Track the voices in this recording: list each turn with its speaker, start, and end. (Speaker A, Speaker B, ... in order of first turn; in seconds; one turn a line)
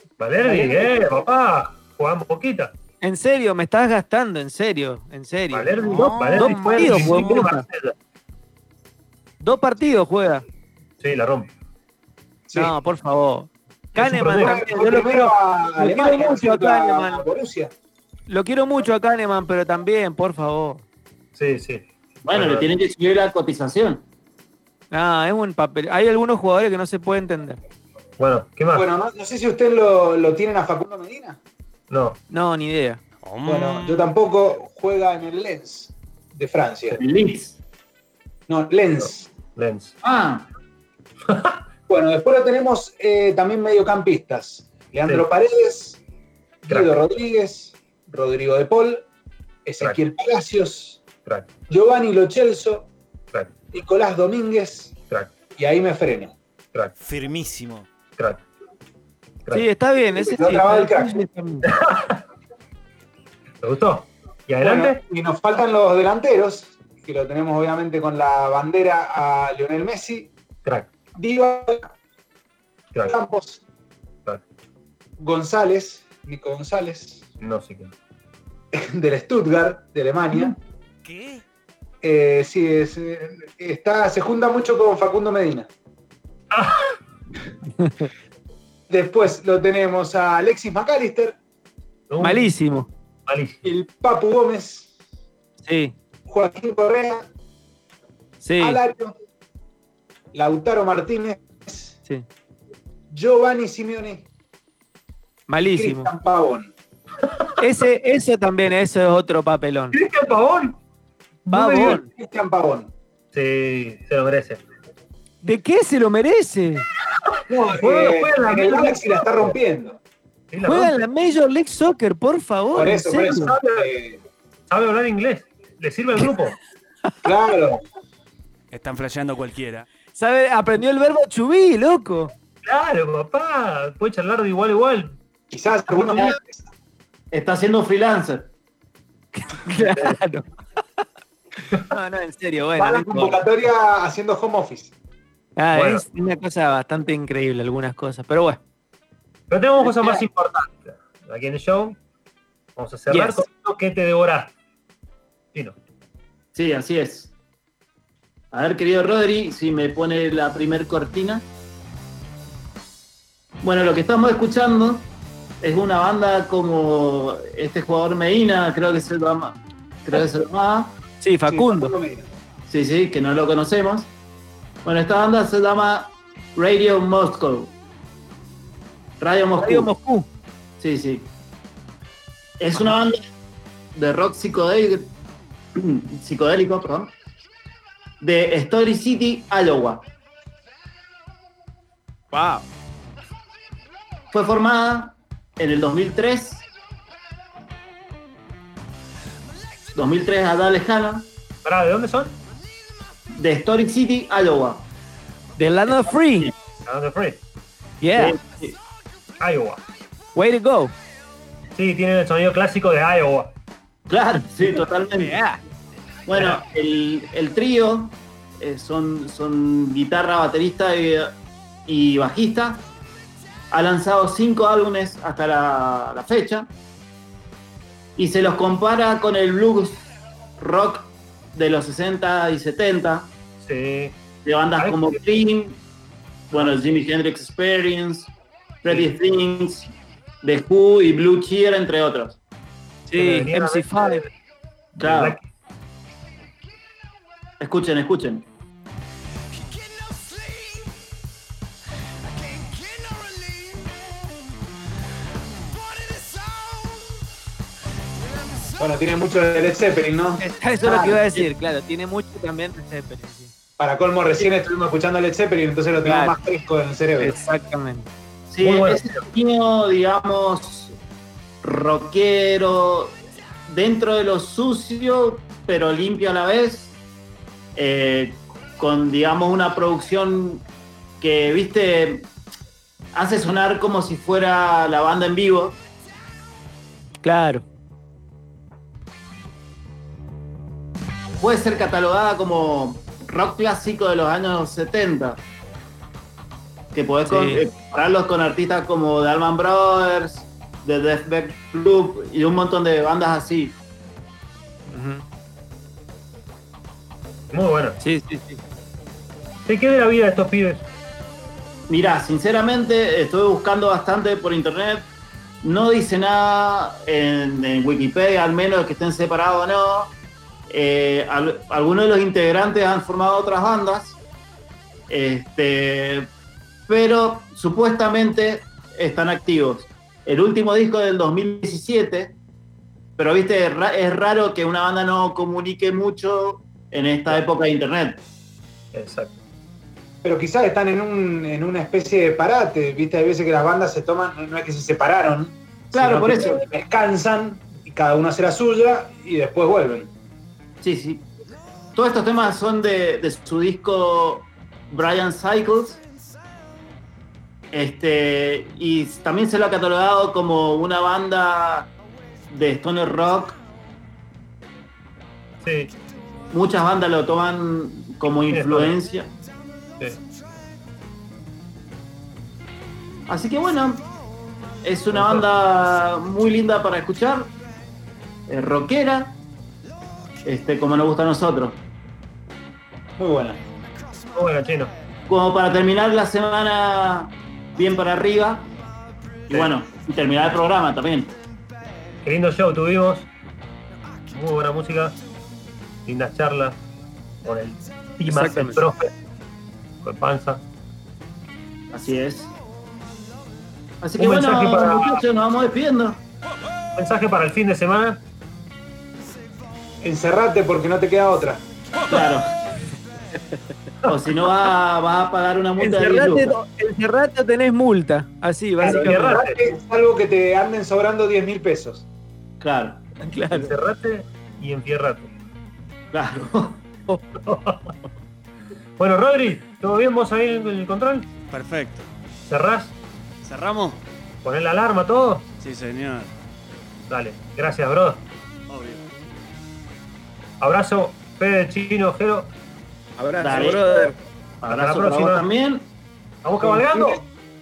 Speaker A: 0.2-2.8
Speaker B: 0.4-1.0
Speaker C: 3.0-7.7
Speaker A: 5.5-8.0
Speaker D: 6.0-6.8
Speaker C: 9.4-10.4
Speaker A: 11.0-11.5
Speaker C: 12.5-17.2
Speaker A: 13.9-14.6
Speaker B: 14.3-17.7
Speaker C: 18.3-20.8
Speaker A: 21.3-22.7
Speaker E: 22.2-24.0
Speaker C: 24.9-27.6
Speaker A: 28.2-28.9
Speaker B: 28.7-31.4
Speaker A: 31.9-32.2
Speaker C: 32.3-33.0
Speaker D: 33.2-34.1
Speaker B: 33.4-37.0
Speaker E: 36.9-37.6
Speaker B: 38.5-39.3
Speaker A: 39.5-39.9
Speaker E: 40.0-40.5
Speaker A: 41.3-41.6
Speaker B: 41.9-46.0
Speaker B: 46.6-49.0
Speaker B: 49.6-51.0
Speaker A: 51.2-51.5
Speaker B: 51.7-52.9
Speaker B: 53.7-54.9
Speaker A: 55.1-55.4
Speaker B: 55.5-56.4
Speaker D: 57.0-57.9
Speaker A: 58.2-58.4
Speaker C: 59.5-61.7
Speaker B: 60.1-61.1
Speaker A: 61.7-62.2
Speaker A: 63.6-65.0
Speaker B: 64.6-70.3
Speaker A: 70.6-70.9
Speaker B: 71.2-71.9
Speaker A: 72.9-73.2
Speaker B: 73.1-73.6
Speaker B: 75.2-77.2
Speaker A: 77.4-77.9
Speaker B: 78.7-80.5
Speaker D: 81.0-81.4
Speaker B: 82.0-85.7
Speaker A: 86.5-87.0
Speaker C: 87.8-88.0
Speaker B: 88.9-91.3
Speaker A: 92.1-92.5
Speaker C: 92.2-92.9
Speaker A: 93.3-93.6
Speaker B: 93.6-94.9
Speaker C: 95.6-95.9
Speaker B: 96.2-97.3
Speaker C: 98.4-98.8
Speaker B: 98.6-99.1
Speaker B: 100.3-101.9
Speaker B: 103.1-104.2
Speaker C: 105.5-106.1
Speaker B: 105.7-106.7
Speaker C: 107.6-110.0
Speaker A: 109.9-110.8
Speaker A: 111.5-112.0
Speaker C: 111.5-112.1
Speaker B: 111.9-112.9
Speaker A: 113.3-114.6
Speaker C: 115.4-116.9
Speaker A: 117.2-119.5
Speaker B: 117.5-120.0
Speaker A: 120.5-121.0
Speaker C: 120.6-123.5
Speaker B: 122.7-124.2
Speaker A: 123.3-123.9
Speaker A: 124.7-126.6
Speaker B: 127.2-127.8
Speaker D: 128.7-129.9
Speaker C: 130.1-132.3
Speaker A: 132.6-135.2
Speaker B: 135.5-136.7
Speaker E: 136.0-136.3
Speaker E: 137.3-138.5
Speaker C: 139.3-140.4
Speaker C: 141.7-143.4
Speaker B: 142.8-144.9
Speaker C: 145.6-148.6
Speaker A: 145.7-146.0
Speaker A: 149.5-152.0
Speaker A: 152.8-154.6
Speaker C: 153.1-153.4
Speaker E: 156.5-157.3
Speaker E: 158.5-161.5
Speaker E: 163.6-165.1
Speaker E: 165.6-171.0
Speaker C: 171.2-171.9
Speaker B: 171.5-172.3
Speaker E: 172.7-174.1
Speaker E: 174.8-177.7
Speaker E: 179.2-179.9
Speaker C: 179.6-180.3
Speaker E: 180.8-181.3
Speaker E: 182.6-183.2
Speaker E: 183.9-185.1
Speaker E: 185.8-187.1
Speaker E: 188.2-190.1
Speaker C: 192.3-192.7
Speaker E: 194.3-196.7
Speaker E: 199.9-201.3
Speaker A: 201.6-202.4
Speaker E: 203.3-204.8
Speaker C: 205.6-206.5
Speaker E: 205.9-206.5
Speaker A: 206.8-207.4
Speaker C: 208.0-208.4
Speaker E: 208.2-208.8
Speaker A: 209.4-209.8
Speaker C: 210.3-210.9
Speaker A: 211.7-213.5
Speaker E: 214.1-215.3
Speaker C: 214.7-215.6
Speaker E: 216.3-221.3
Speaker A: 216.3-216.6
Speaker E: 221.9-222.9
Speaker E: 223.7-226.7
Speaker E: 228.2-230.1
Speaker E: 230.6-233.3
Speaker A: 233.6-234.2
Speaker E: 234.4-235.8
Speaker A: 234.8-235.2
Speaker E: 236.5-238.3
Speaker A: 236.5-237.0
Speaker E: 238.8-242.4
Speaker A: 238.9-239.1
Speaker C: 243.1-244.3
Speaker A: 243.2-244.2
Speaker A: 244.9-245.4
Speaker E: 245.0-245.4
Speaker E: 247.6-248.4
Speaker B: 258.8-261.2
Speaker C: 260.4-263.5
Speaker E: 260.8-261.5
Speaker B: 263.8-267.4
Speaker C: 266.0-266.4
Speaker C: 267.2-268.1
Speaker E: 268.5-270.9
Speaker A: 268.6-269.2
Speaker E: 271.6-276.9
Speaker E: 277.8-280.6
Speaker E: 281.2-282.3
Speaker E: 283.1-285.8
Speaker C: 287.2-287.6
Speaker E: 291.4-295.4
Speaker E: 296.9-303.8
Speaker C: 297.2-297.6
Speaker C: 304.9-305.2
Speaker A: 307.5-308.0
Speaker C: 308.0-308.6
Speaker A: 309.6-310.8
Speaker E: 311.9-315.1
Speaker E: 315.6-320.1
Speaker E: 320.7-324.2
Speaker E: 325.1-326.3
Speaker E: 326.9-332.3
Speaker E: 333.2-338.2
Speaker A: 338.9-339.4
Speaker B: 340.2-345.6
Speaker A: 345.9-346.4
Speaker E: 345.9-346.6
Speaker B: 346.2-350.1
Speaker E: 350.8-351.3
Speaker E: 351.9-356.0
Speaker E: 357.7-361.9
Speaker E: 362.5-363.6
Speaker A: 365.6-365.9
Speaker E: 366.5-369.3
Speaker A: 368.5-369.0
Speaker E: 373.3-374.1
Speaker E: 374.8-377.5
Speaker A: 375.1-375.5
Speaker E: 378.5-379.4
Speaker E: 380.4-381.8
Speaker B: 383.2-383.6
Speaker A: 384.3-384.9
Speaker E: 385.3-388.7
Speaker E: 389.5-391.3
Speaker A: 389.5-389.8
Speaker A: 392.2-393.3
Speaker A: 394.3-395.2
Speaker A: 396.1-396.8
Speaker A: 397.4-399.1
Speaker C: 398.3-398.9
Speaker A: 400.0-400.6
Speaker E: 401.9-402.6
Speaker E: 404.0-406.2
Speaker A: 404.2-405.3
Speaker A: 406.9-408.2
Speaker B: 410.0-411.6
Speaker E: 412.1-412.5
Speaker E: 414.1-416.5
Speaker C: 415.8-419.1
Speaker A: 418.8-419.6
Speaker B: 418.8-422.0
Speaker E: 422.6-423.0
Speaker C: 423.2-423.7
Speaker A: 423.5-425.3
Speaker E: 426.1-426.8
Speaker A: 427.4-427.9
Speaker A: 429.0-431.3
Speaker D: 431.5-432.1
Speaker A: 432.4-432.9
Speaker D: 433.4-434.0
Speaker A: 434.4-435.5
Speaker D: 435.6-436.3
Speaker A: 437.1-438.2
Speaker D: 438.7-439.0
Speaker A: 440.6-442.5
Speaker C: 443.2-444.1
Speaker E: 443.4-445.8
Speaker A: 444.7-445.5
Speaker A: 446.4-447.2